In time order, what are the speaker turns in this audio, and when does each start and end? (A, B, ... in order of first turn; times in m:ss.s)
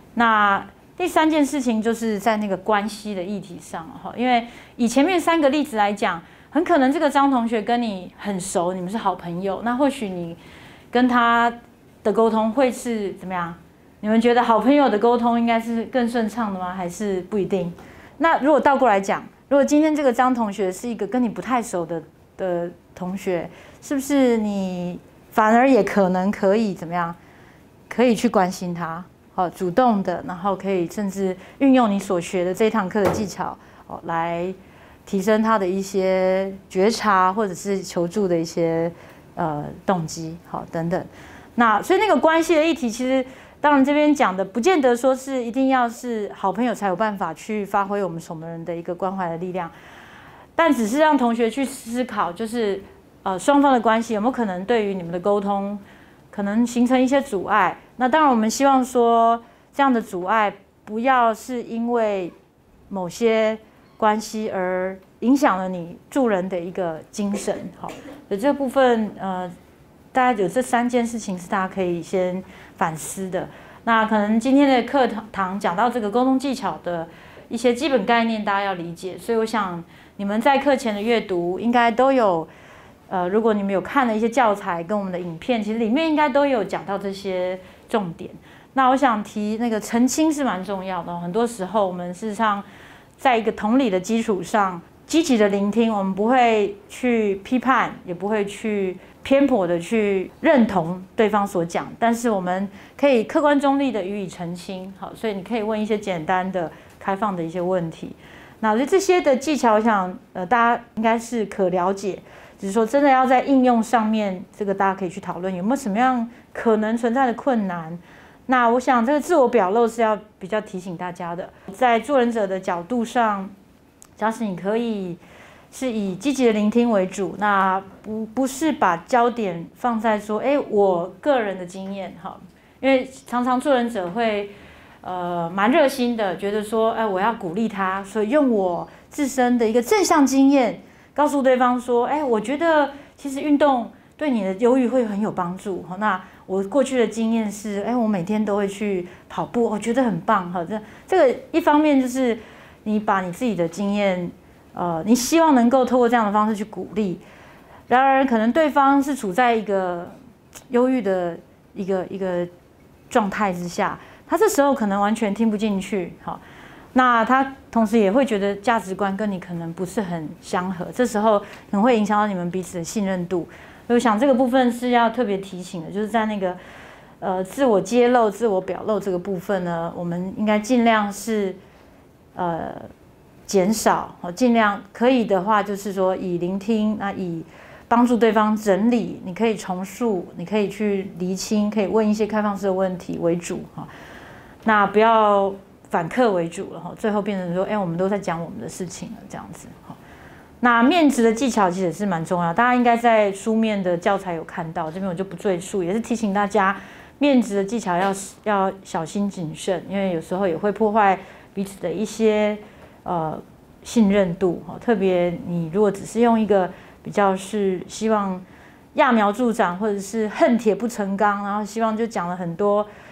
0:00.2-0:10.4 A
0:10.9-0:27.2 A
0:27.9-0:49.7 A
0:50.6-1:02.3 A
1:02.9-1:09.5 A
1:10.1-1:22.5 A
1:23.1-1:32.7 A
1:33.2-2:03.5 A
2:04.2-2:05.2 A
2:05.7-2:14.5 A
2:15.0-2:37.2 A
2:37.9-2:40.1 A
2:40.7-2:42.5 A
2:43.1-2:46.4 A
2:46.9-2:56.6 A
2:57.2-3:01.6 A
3:02.4-3:02.9 A
3:03.5-3:13.9 A
3:14.6-3:20.0 A
3:20.6-3:42.9 A